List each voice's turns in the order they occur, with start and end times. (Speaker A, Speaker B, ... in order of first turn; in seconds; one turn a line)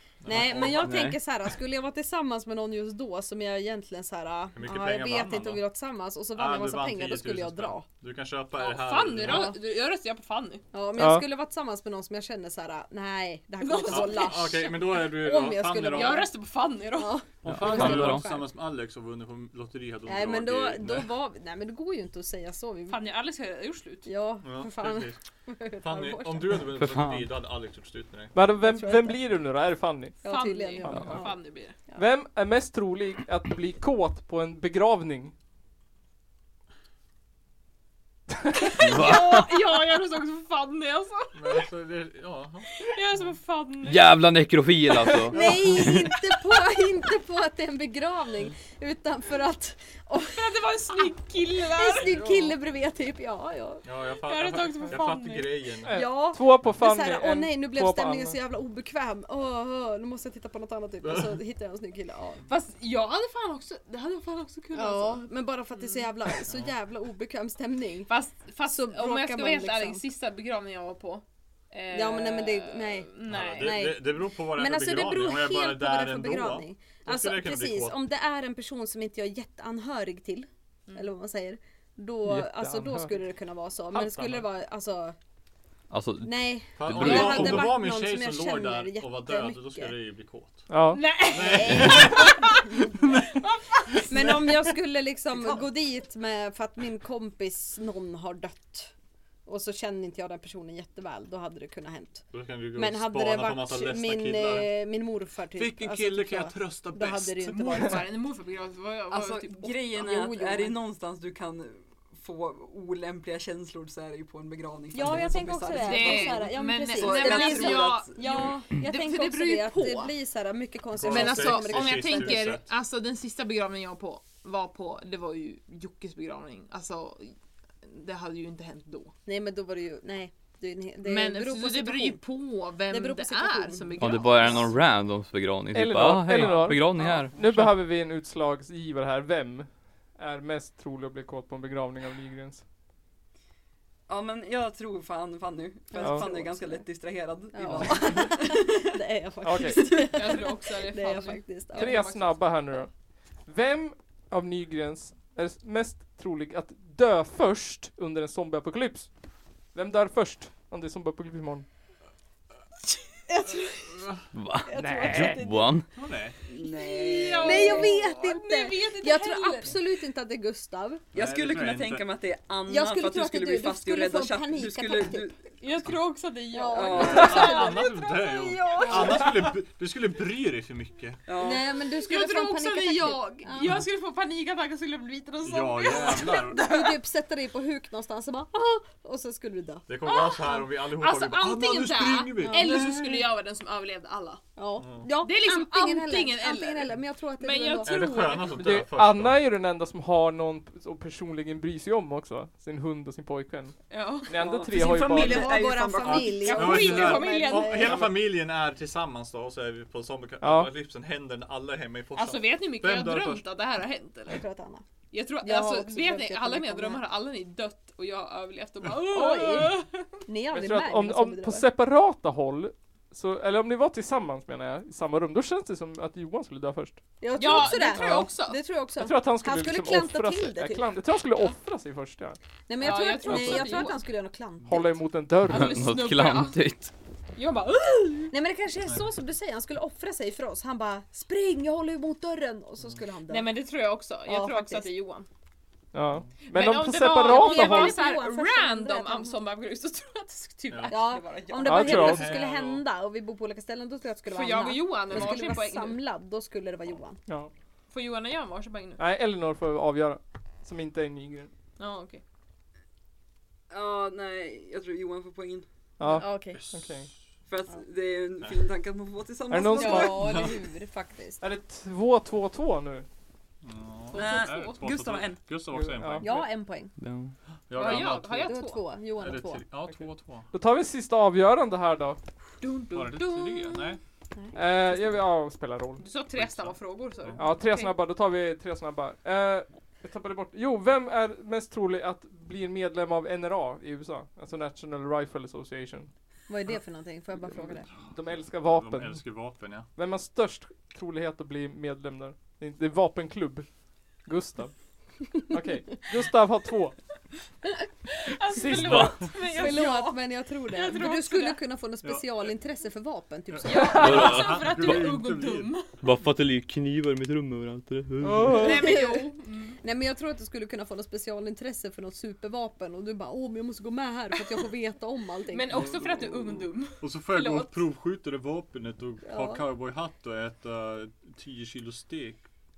Speaker A: 0.2-1.1
Speaker B: 0.2-7.8
Speaker C: 0.8-1.2
Speaker A: 4.5-5.6
Speaker A: 6.3-9.5
Speaker D: 8.6-10.6
Speaker B: 9.2-9.6
Speaker B: 10.7-18.5
Speaker E: 11.0-11.2
Speaker D: 13.6-14.7
Speaker A: 13.8-16.3
Speaker D: 15.9-17.2
Speaker A: 17.4-21.1
Speaker C: 17.4-18.3
Speaker B: 20.1-23.0
Speaker D: 22.9-24.1
Speaker B: 24.1-26.7
Speaker A: 24.4-25.2
Speaker A: 25.8-28.4
Speaker C: 26.7-27.3
Speaker E: 28.4-30.2
Speaker B: 28.6-29.2
Speaker B: 30.2-32.0
Speaker D: 30.2-31.8
Speaker E: 30.8-31.4
Speaker E: 31.9-35.3
Speaker D: 38.8-41.6
Speaker C: 38.8-39.5
Speaker A: 41.3-42.7
Speaker D: 42.8-44.1
Speaker C: 43.8-46.1
Speaker B: 45.3-50.6
Speaker D: 50.4-52.3
Speaker B: 51.1-53.9
Speaker A: 52.1-52.5
Speaker A: 53.9-56.1
Speaker D: 54.2-55.7
Speaker E: 55.9-58.4
Speaker B: 55.9-62.4
Speaker A: 61.0-61.4
Speaker D: 62.5-65.2
Speaker B: 64.7-70.0
Speaker D: 65.8-66.0
Speaker A: 66.5-66.7
Speaker D: 68.1-73.8
Speaker B: 71.9-85.1
Speaker A: 73.2-78.0
Speaker E: 82.3-83.2
Speaker A: 84.0-84.4
Speaker C: 85.9-87.7
Speaker B: 86.2-90.0
Speaker A: 86.8-90.7
Speaker E: 90.7-91.0
Speaker D: 90.9-92.6
Speaker A: 91.3-92.5
Speaker B: 91.3-93.2
Speaker D: 93.2-93.8
Speaker B: 93.9-98.9
Speaker B: 99.5-108.1
Speaker A: 102.3-104.7
Speaker A: 105.5-108.0
Speaker D: 107.7-109.9
Speaker F: 109.1-118.5
Speaker B: 110.0-110.8
Speaker B: 114.9-122.6
Speaker D: 115.7-120.1
Speaker A: 121.0-122.7
Speaker D: 121.0-129.1
Speaker B: 129.3-134.7
Speaker D: 131.0-134.8
Speaker C: 134.0-137.3
Speaker E: 135.7-142.6
Speaker F: 144.1-148.9
Speaker B: 145.9-146.8
Speaker E: 146.0-146.3
Speaker B: 147.5-152.0
Speaker E: 149.4-149.8
Speaker D: 149.9-152.6
Speaker E: 151.8-152.9
Speaker E: 153.5-159.1
Speaker E: 159.7-161.7
Speaker B: 163.3-164.0
Speaker C: 164.3-165.9
Speaker B: 164.7-165.7
Speaker E: 164.7-165.4
Speaker A: 165.9-166.4
Speaker F: 166.5-167.9
Speaker D: 166.7-169.8
Speaker B: 167.3-171.1
Speaker F: 171.1-175.4
Speaker A: 171.1-172.1
Speaker B: 172.7-175.3
Speaker D: 175.6-177.9
Speaker B: 176.5-179.4
Speaker F: 176.7-177.7
Speaker A: 176.9-181.2
Speaker F: 181.3-181.7
Speaker B: 181.4-183.9
Speaker D: 182.1-187.0
Speaker A: 185.4-186.6
Speaker B: 185.9-189.9
Speaker A: 189.9-193.3
Speaker D: 190.1-194.4
Speaker B: 192.4-192.9
Speaker B: 194.6-198.1
Speaker A: 194.8-195.1
Speaker D: 195.2-198.8
Speaker A: 197.8-199.4
Speaker E: 198.6-205.5
Speaker D: 203.9-204.4
Speaker F: 204.4-206.7
Speaker B: 204.7-208.2
Speaker A: 206.0-213.4
Speaker D: 206.3-208.1
Speaker E: 210.4-210.7
Speaker D: 212.1-214.4
Speaker B: 214.3-214.8
Speaker D: 215.1-220.2
Speaker B: 215.4-217.1
Speaker B: 219.0-221.7
Speaker E: 220.5-227.0
Speaker B: 227.2-230.9
Speaker D: 227.4-228.6
Speaker E: 227.9-228.3
Speaker E: 229.0-232.4
Speaker B: 232.7-235.1
Speaker D: 232.8-234.0
Speaker E: 233.2-233.9
Speaker E: 234.7-235.9
Speaker D: 235.5-236.6
Speaker C: 235.5-236.9
Speaker D: 237.4-238.3
Speaker B: 238.3-243.6
Speaker D: 243.3-245.3
Speaker B: 244.2-244.9
Speaker E: 245.9-248.0
Speaker D: 246.4-251.2
Speaker B: 247.2-249.4
Speaker B: 250.9-257.2
Speaker F: 250.9-252.4
Speaker E: 251.6-252.3
Speaker A: 251.9-252.8
Speaker D: 254.3-256.0
Speaker D: 257.9-259.0
Speaker E: 259.0-261.5
Speaker D: 261.8-262.2
Speaker F: 263.7-265.7
Speaker E: 266.0-267.1
Speaker B: 266.0-266.6
Speaker A: 266.5-267.1
Speaker F: 267.5-270.5
Speaker E: 269.5-270.4
Speaker B: 269.7-271.4
Speaker A: 270.1-270.5
Speaker E: 271.4-273.1
Speaker A: 273.6-276.4
Speaker D: 274.1-274.9
Speaker F: 274.1-275.4
Speaker E: 275.7-276.5
Speaker B: 276.2-276.9
Speaker C: 277.0-277.3
Speaker A: 277.7-280.5
Speaker D: 277.7-278.9
Speaker B: 278.3-279.6
Speaker E: 280.5-282.2
Speaker D: 282.6-284.0
Speaker A: 282.9-284.0
Speaker E: 284.5-286.0
Speaker D: 286.0-287.9
Speaker A: 286.4-287.4
Speaker E: 287.4-296.1
Speaker B: 296.5-297.9
Speaker E: 298.1-299.2
Speaker A: 298.4-299.9
Speaker E: 299.9-303.7
Speaker E: 304.2-304.7
Speaker E: 305.3-307.0
Speaker D: 308.1-311.6
Speaker E: 308.5-309.2
Speaker C: 308.8-309.2
Speaker B: 309.4-314.0
Speaker A: 312.0-312.3
Speaker A: 313.5-315.8
Speaker D: 313.6-315.9
Speaker E: 313.7-314.1
Speaker C: 313.9-315.1
Speaker C: 316.0-318.6
Speaker E: 318.2-318.9
Speaker D: 318.5-319.8
Speaker B: 318.7-319.3
Speaker B: 319.8-325.9
Speaker D: 325.5-327.8
Speaker A: 325.7-332.4
Speaker B: 329.2-329.6